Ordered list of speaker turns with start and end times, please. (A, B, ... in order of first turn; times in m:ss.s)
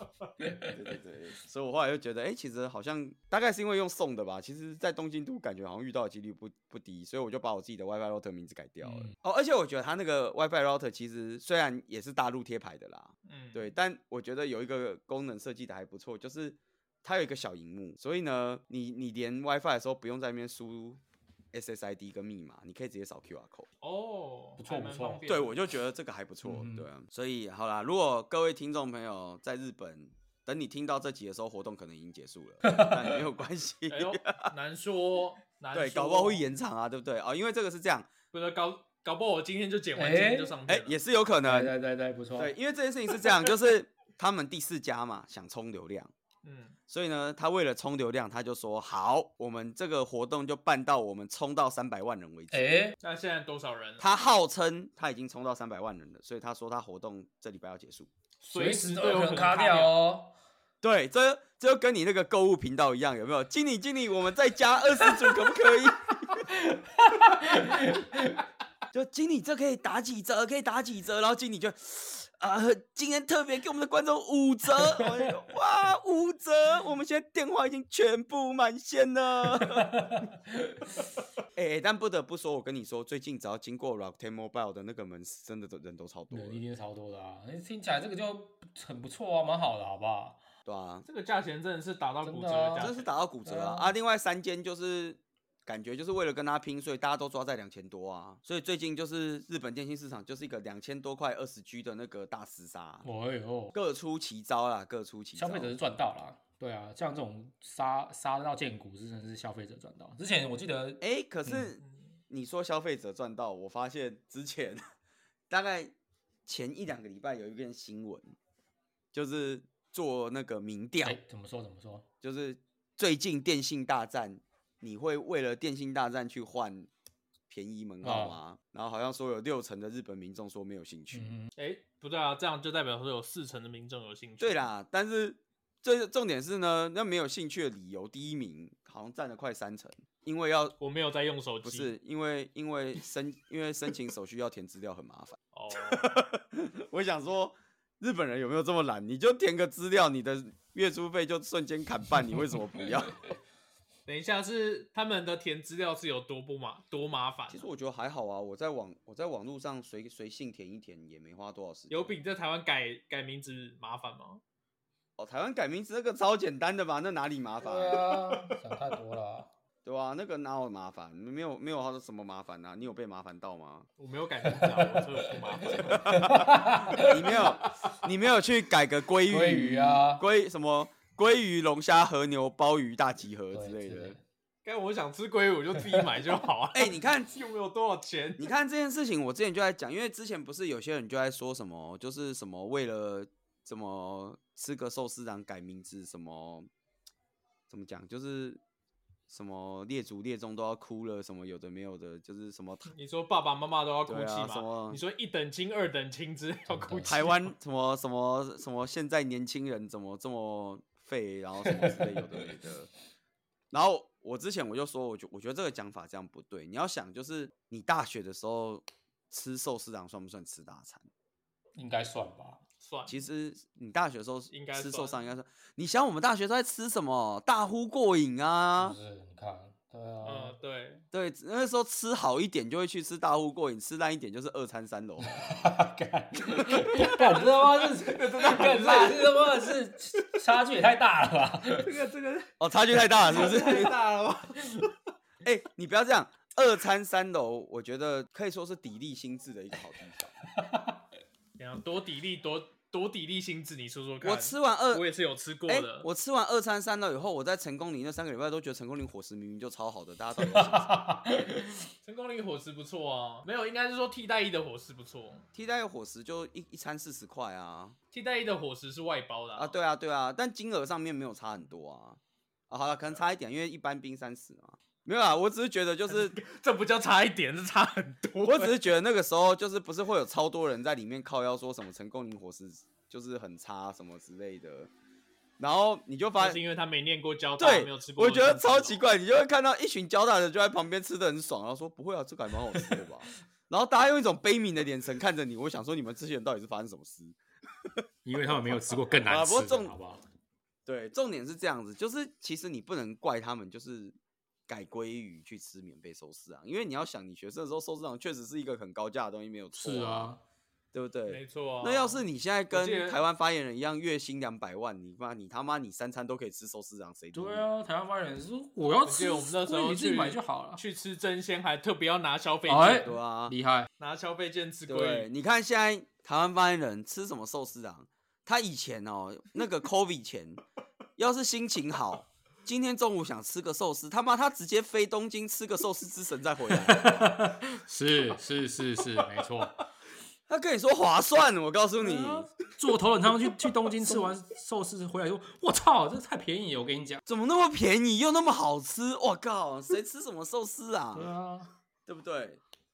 0:00.4-0:00.9 A
0:00.7-0:21.0 B
0:08.8-0:09.1 A
0:13.3-0:13.7 C
0:21.5-0:23.7 B
0:23.8-0:25.6 C
0:24.6-0:25.2 A
0:25.3-0:34.5 B
0:26.4-0:26.9 A
0:32.6-0:33.2 A
0:33.9-0:36.4 C
0:35.7-0:38.1 B
0:38.3-0:41.0 C
0:40.0-0:40.6 A
0:40.7-0:41.7 B
0:41.4-0:42.5 A
0:42.4-0:46.1 B
0:46.4-0:46.8 C
0:46.9-0:52.7 B
0:52.5-0:53.0 A
0:53.0-0:54.0 C
0:54.0-0:58.1 B
0:58.4-0:59.9 C
0:58.5-1:00.3 A
1:00.8-1:06.5 B
1:06.4-1:08.4 A
1:08.9-1:20.1 B
1:14.8-1:15.4 A
1:19.4-1:21.0 A
1:21.6-1:26.6 B
1:26.3-1:30.4 A
1:30.7-1:31.1 B
1:31.1-1:33.1 C
1:32.2-1:32.9 A
1:32.8-1:43.1 B
1:33.4-1:34.0 A
1:43.0-1:43.8 A
1:43.7-1:45.7 B
1:45.4-1:51.7 A
1:51.0-1:54.8 B
1:51.8-1:52.2 C
1:55.5-1:55.9 B
1:56.5-1:58.3 B
1:59.1-2:01.2 B
2:01.0-2:02.1 A
2:02.2-2:06.9 B
2:07.5-2:11.3 B
2:08.0-2:08.4 A
2:11.1-2:11.5 A
2:11.6-2:14.7 C
2:14.4-2:20.8 B
2:20.8-2:21.9 C
2:21.6-2:33.2 B
2:25.5-2:26.2 C
2:34.1-2:37.7 C
2:37.5-2:42.2 B
2:41.9-2:44.4 C
2:45.2-2:48.2 B
2:47.6-2:49.5 A
2:49.8-2:53.9 B
2:54.0-2:56.2 C
2:54.5-2:55.0 A
2:55.7-3:04.1 B
2:55.9-2:57.4 A
2:57.0-2:57.7 C
2:59.3-3:00.2 A
3:03.5-3:04.2 A
3:04.6-3:08.5 C
3:06.7-3:07.3 B
3:08.4-3:16.7 B
3:17.7-3:18.6 B
3:19.3-3:22.9 B
3:22.9-3:27.4 C
3:24.1-3:25.0 B
3:26.7-3:27.4 A
3:27.1-3:32.9 B
3:31.6-3:32.5 A
3:33.7-3:41.1 B
3:41.8-3:42.6 A
3:42.8-3:43.2 C
3:43.1-3:49.0 B
3:44.5-3:45.2 C
3:48.8-3:50.5 A
3:50.2-3:51.0 C
3:51.1-3:55.5 B
3:55.2-4:01.9 A
3:56.6-4:00.3 C
4:01.8-4:02.5 C
4:02.6-4:04.0 B
4:03.2-4:04.8 C
4:05.4-4:10.4 B
4:10.5-4:11.0 A
4:11.6-4:16.1 C
4:14.2-4:15.1 B
4:15.7-4:21.0 B
4:20.4-4:21.9 A
4:22.0-4:25.5 C
4:25.6-4:28.0 B
4:28.1-4:29.8 C
4:29.6-4:32.2 B
4:32.7-4:36.4 B
4:36.1-4:38.8 C
4:38.4-4:44.9 B
4:45.6-4:46.6 B
4:46.4-4:49.0 C
4:47.6-5:00.0 B
4:58.2-5:00.2 A
5:00.9-5:04.2 B
5:04.7-5:10.3 B
5:09.7-5:10.4 A
5:10.9-5:17.7 B
5:11.3-5:13.2 C
5:17.3-5:20.8 A
5:19.0-5:23.1 C
5:22.7-5:23.9 A
5:23.0-5:23.6 B
5:24.0-5:25.3 C
5:24.9-5:30.6 B
5:31.2-5:37.4 B
5:36.7-5:39.7 A
5:40.5-5:42.5 B
5:42.0-5:47.2 A
5:44.0-5:44.4 B
5:47.3-5:51.3 B
5:51.1-5:51.7 A
5:52.1-5:52.6 B